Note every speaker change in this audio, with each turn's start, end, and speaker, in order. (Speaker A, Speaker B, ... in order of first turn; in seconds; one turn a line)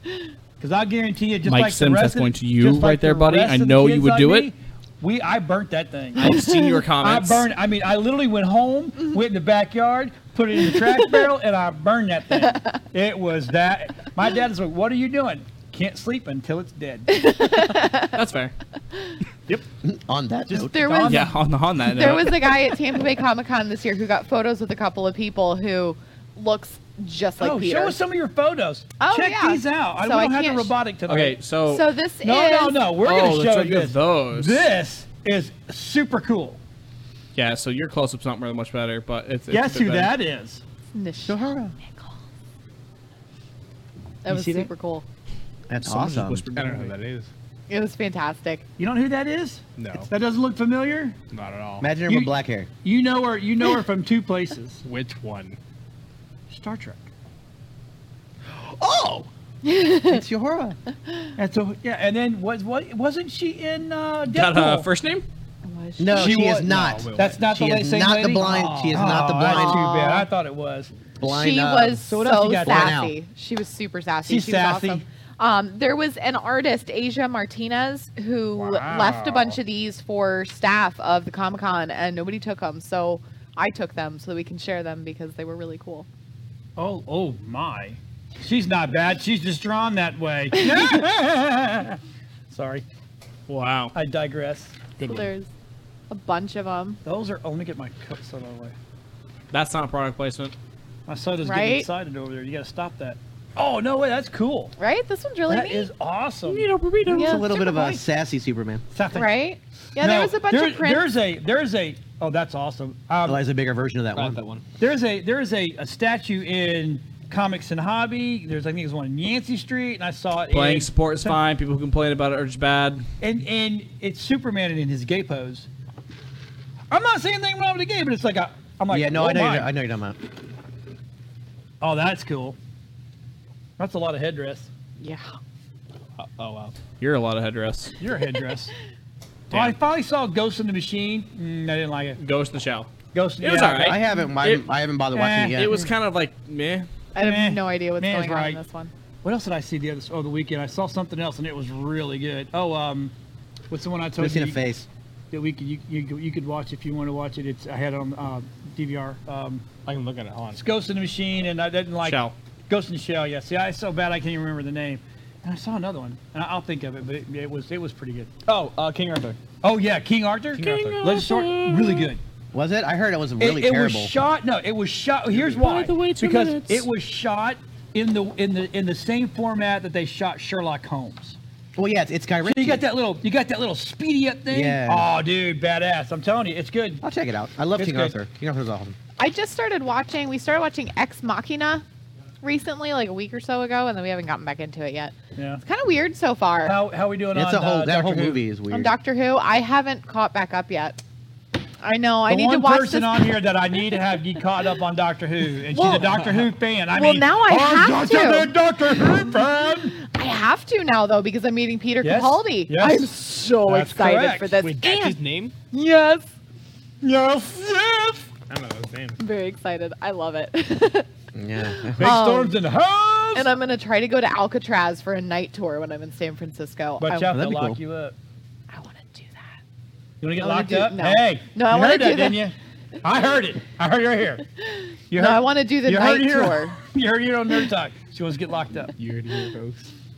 Speaker A: 0.6-6.2
Speaker B: 1.4-4.5
Speaker B: 6.2-7.5
Speaker C: 6.2-6.7
Speaker A: 7.0-17.2
Speaker C: 17.1-18.2
Speaker B: 18.0-18.5
Speaker D: 19.8-20.7
Speaker A: 20.5-21.3
Speaker C: 20.7-21.3
Speaker B: 21.1-22.5
Speaker C: 21.9-28.0
Speaker A: 27.4-31.4
Speaker C: 29.0-30.7
Speaker B: 31.1-31.9
Speaker C: 31.7-33.0
Speaker A: 32.2-36.6
Speaker B: 33.0-34.7
Speaker B: 37.3-40.1
Speaker A: 39.5-40.6
Speaker C: 40.9-42.1
Speaker D: 41.2-41.8
Speaker C: 44.2-45.0
Speaker A: 44.3-44.7
Speaker D: 45.7-46.5
Speaker B: 45.8-46.9
Speaker E: 46.3-47.3
Speaker C: 47.7-48.6
Speaker A: 48.8-51.2
Speaker E: 49.8-50.1
Speaker E: 51.3-51.9
Speaker D: 51.8-52.7
Speaker A: 52.0-54.8
Speaker E: 54.8-55.6
Speaker A: 56.5-57.1
Speaker D: 58.5-59.3
Speaker C: 59.6-60.2
Speaker D: 60.0-60.8
Speaker A: 61.4-64.9
Speaker B: 64.3-65.2
Speaker C: 65.6-66.4
Speaker D: 66.0-69.9
Speaker A: 66.1-70.9
Speaker E: 66.2-67.4
Speaker C: 69.5-70.3
Speaker D: 71.2-72.1
Speaker C: 71.3-86.1
Speaker A: 72.1-72.9
Speaker D: 72.6-73.1
Speaker A: 74.2-75.0
Speaker A: 78.6-79.6
Speaker A: 86.8-92.0
Speaker A: 92.5-92.8
Speaker B: 93.5-93.9
Speaker A: 93.9-94.9
Speaker C: 95.0-95.5
Speaker C: 96.1-97.0
Speaker A: 97.0-98.7
Speaker B: 99.5-100.5
Speaker A: 101.1-104.7
Speaker C: 101.4-101.9
Speaker C: 104.8-105.9
Speaker A: 105.5-106.7
Speaker B: 106.5-107.4
Speaker C: 107.1-108.0
Speaker D: 107.1-108.8
Speaker A: 108.9-109.3
Speaker C: 109.1-111.1
Speaker A: 110.0-113.4
Speaker D: 113.2-114.4
Speaker E: 114.1-114.6
Speaker A: 114.8-121.4
Speaker B: 120.5-123.0
Speaker A: 123.2-125.7
Speaker A: 126.9-129.7
Speaker D: 128.9-130.2
Speaker A: 131.8-132.6
Speaker A: 133.8-134.7
Speaker C: 135.0-135.3
Speaker E: 136.2-136.8
Speaker B: 137.0-137.9
Speaker A: 138.0-138.7
Speaker B: 139.5-139.8
Speaker A: 139.5-142.2
Speaker B: 142.2-144.6
Speaker A: 143.1-144.0
Speaker D: 143.8-145.8
Speaker A: 145.1-145.7
Speaker B: 145.5-146.9
Speaker C: 147.1-148.9
Speaker A: 147.2-148.6
Speaker A: 149.2-153.1
Speaker A: 153.7-154.6
Speaker D: 154.2-154.9
Speaker A: 155.3-159.6
Speaker E: 159.8-160.6
Speaker A: 160.6-168.3
Speaker B: 162.0-162.3
Speaker E: 168.4-169.4
Speaker A: 169.6-172.2
Speaker E: 170.5-171.2
Speaker B: 170.6-172.1
Speaker D: 172.5-174.1
Speaker A: 173.4-181.4
Speaker B: 175.6-176.9
Speaker D: 181.8-182.8
Speaker A: 182.4-187.0
Speaker D: 184.5-185.1
Speaker D: 187.0-188.9
Speaker A: 187.8-188.2
Speaker C: 189.2-191.8
Speaker C: 192.4-196.8
Speaker A: 195.3-195.6
Speaker A: 196.6-198.4
Speaker D: 197.3-198.9
Speaker C: 198.7-201.0
Speaker C: 201.8-203.3
Speaker A: 202.3-210.0
Speaker C: 205.7-206.2
Speaker C: 206.9-208.5
Speaker C: 210.0-215.2
Speaker A: 212.0-213.1
Speaker A: 213.7-214.5
Speaker E: 214.6-215.5
Speaker C: 215.7-216.3
Speaker A: 217.0-218.3
Speaker E: 218.5-219.2
Speaker C: 219.2-221.1
Speaker D: 221.3-222.1
Speaker C: 221.6-222.6
Speaker A: 222.0-223.5
Speaker C: 223.3-227.3
Speaker A: 227.0-228.1
Speaker D: 227.3-227.8
Speaker C: 228.7-229.5
Speaker A: 230.2-234.4
Speaker C: 230.4-232.4
Speaker C: 234.7-236.8
Speaker A: 235.1-238.9
Speaker E: 239.0-239.9